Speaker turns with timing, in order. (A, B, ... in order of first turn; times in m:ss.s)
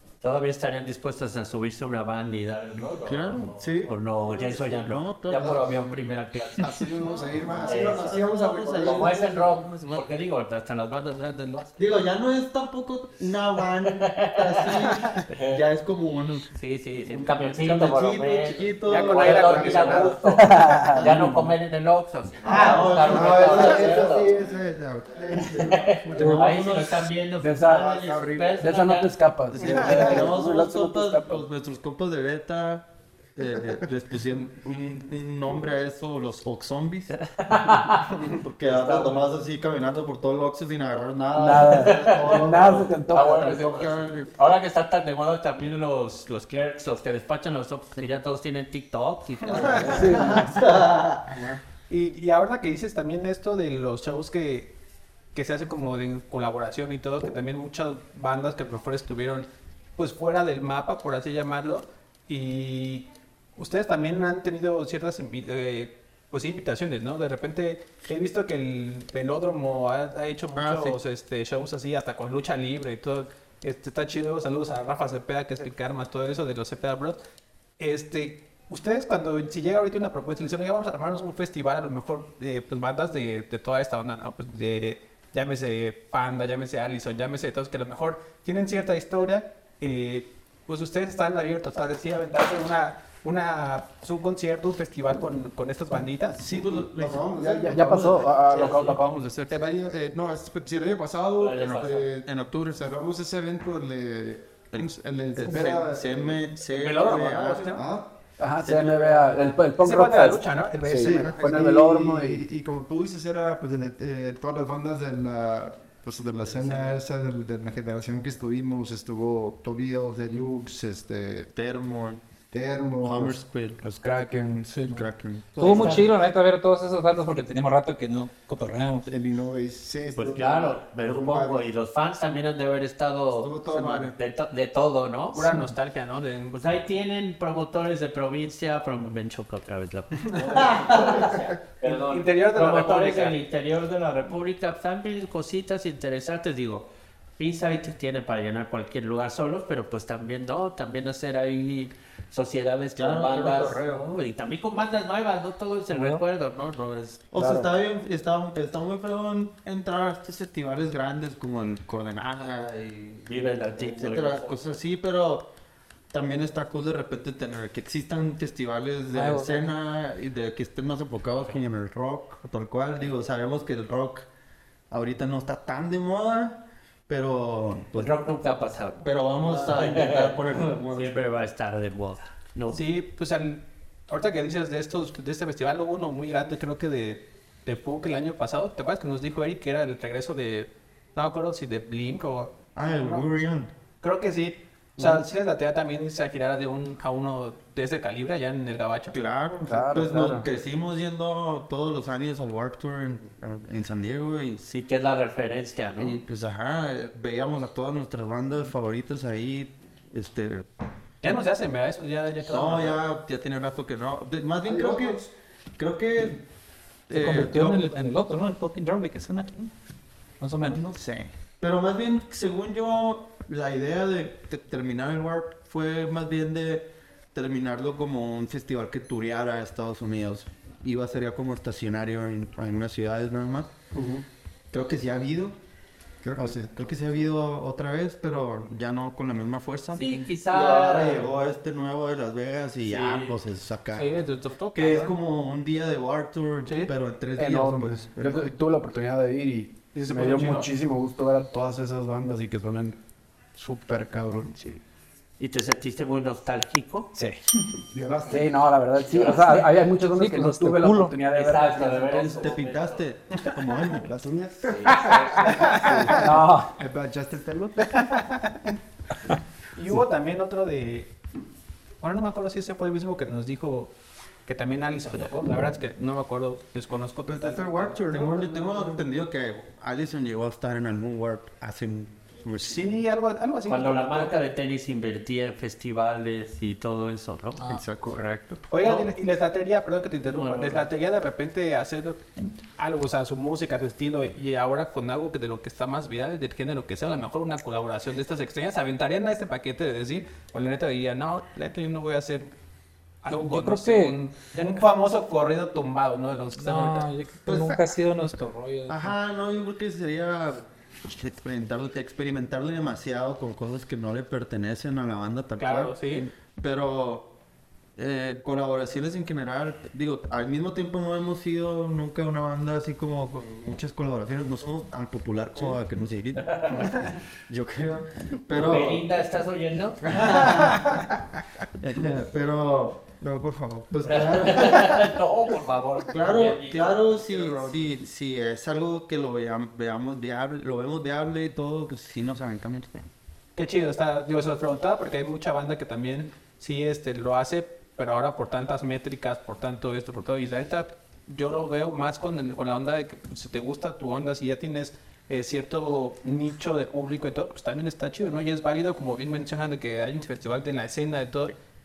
0:00.2-0:06.9 A
0:03.1-0:05.7 B
0:05.4-0:05.7 C
0:06.6-0:09.2 C
0:07.5-0:10.0 B
0:07.6-0:08.2 A
0:08.8-0:11.8 A
0:11.8-0:16.5 B
0:14.0-0:15.6 A
0:16.6-0:24.3 A
0:17.2-0:20.2 B
0:18.9-0:21.3 D
0:19.2-0:20.0 E
0:21.0-0:21.5 B
0:22.5-0:24.2 B
0:22.5-0:26.6 C
0:25.6-0:29.2 A
0:26.1-0:27.1 B
0:27.4-0:27.9 D
0:27.7-0:28.6 C
0:28.5-0:31.4 D
0:29.5-0:37.1 B
0:29.6-0:30.3 C
0:37.2-0:39.3 A
0:38.3-0:44.3 B
0:41.4-0:43.6 D
0:41.8-0:50.3 A
0:49.9-0:50.5 D
0:50.0-0:50.5 C
0:50.3-0:51.2 B
0:51.3-0:51.6 C
0:51.9-0:54.8 E
0:55.3-1:17.2 E
1:10.5-1:11.0 B
1:17.8-1:36.5 E
1:36.4-1:37.2 B
1:36.6-1:38.5 C
1:37.3-1:39.0 D
1:37.9-1:39.7 E
1:38.5-1:39.0 A
1:39.5-1:46.4 C
1:41.4-1:42.1 A
1:41.8-1:42.9 B
1:44.7-1:47.8 B
1:45.5-1:45.8 D
1:46.8-1:47.5 D
1:46.8-1:47.8 E
1:47.1-1:48.1 C
1:48.4-1:52.4 D
1:48.7-1:49.0 B
1:49.8-1:51.5 E
1:51.0-2:01.5 C
2:01.5-2:02.3 B
2:02.5-2:03.4 C
2:03.0-2:03.8 B
2:04.0-2:05.0 C
2:04.9-2:06.0 B
2:05.6-2:06.1 C
2:05.6-2:09.1 F
2:05.7-2:06.0 A
2:09.1-2:11.7 C
2:10.1-2:15.6 A
2:13.4-2:14.1 C
2:15.3-2:16.8 E
2:16.5-2:26.9 A
2:20.7-2:21.2 B
2:21.8-2:23.4 E
2:27.4-2:37.3 A
2:33.0-2:34.0 B
2:35.9-2:36.2 F
2:37.3-2:45.5 B
2:37.4-2:37.7 D
2:43.3-2:44.6 A
2:46.1-2:54.3 B
2:49.1-2:49.7 F
2:54.9-2:58.1 B
2:58.0-3:02.8 A
2:59.0-3:01.3 B
3:02.7-3:13.3 E
3:12.8-3:13.7 B
3:14.0-3:19.2 E
3:19.1-3:24.6 B
3:19.7-3:20.5 D
3:24.6-3:26.2 A
3:26.0-3:30.7 B
3:31.2-3:33.0 E
3:32.5-3:35.2 B
3:34.6-3:35.3 C
3:35.8-3:36.4 B
3:37.1-3:37.8 B
3:37.1-3:39.7 F
3:40.4-3:40.8 F
3:40.6-3:53.7 B
3:54.7-3:55.6 B
3:56.2-3:56.8 C
3:56.4-4:04.1 B
4:00.0-4:01.3 A
4:02.9-4:03.4 A
4:03.9-4:05.1 E
4:04.7-4:08.4 B
4:06.7-4:06.9 E
4:07.4-4:13.0 D
4:10.1-4:10.7 E
4:13.6-4:14.8 D
4:15.4-4:17.1 A
4:17.1-4:22.4 D
4:19.1-4:19.6 A
4:19.2-4:19.5 F
4:20.1-4:21.2 F
4:21.3-4:23.1 A
4:22.2-4:24.3 B
4:23.9-4:28.0 C
4:24.6-4:25.7 A
4:25.5-4:26.0 E
4:25.8-4:26.7 D
4:28.0-4:28.4 E
4:29.8-4:31.1 E
4:32.0-4:33.9 E
4:34.4-4:38.5 E
4:37.3-4:38.8 C
4:37.9-4:43.0 B
4:42.6-4:44.3 E
4:43.7-4:47.6 A
4:47.6-4:48.6 B
4:48.7-5:02.5 E
4:50.3-4:50.8 A
5:03.2-5:07.1 E
5:03.3-5:04.2 F
5:06.6-5:09.1 F
5:07.5-5:07.8 B
5:08.9-5:17.3 B
5:15.6-5:16.3 E
5:18.0-5:29.1 B
5:26.4-5:27.1 A
5:28.5-5:30.1 A
5:30.1-5:31.0 B
5:31.8-5:33.1 B
5:33.2-5:34.8 C
5:34.0-5:35.0 B
5:34.0-5:37.7 A
5:36.1-5:43.1 B
5:43.6-6:01.6 E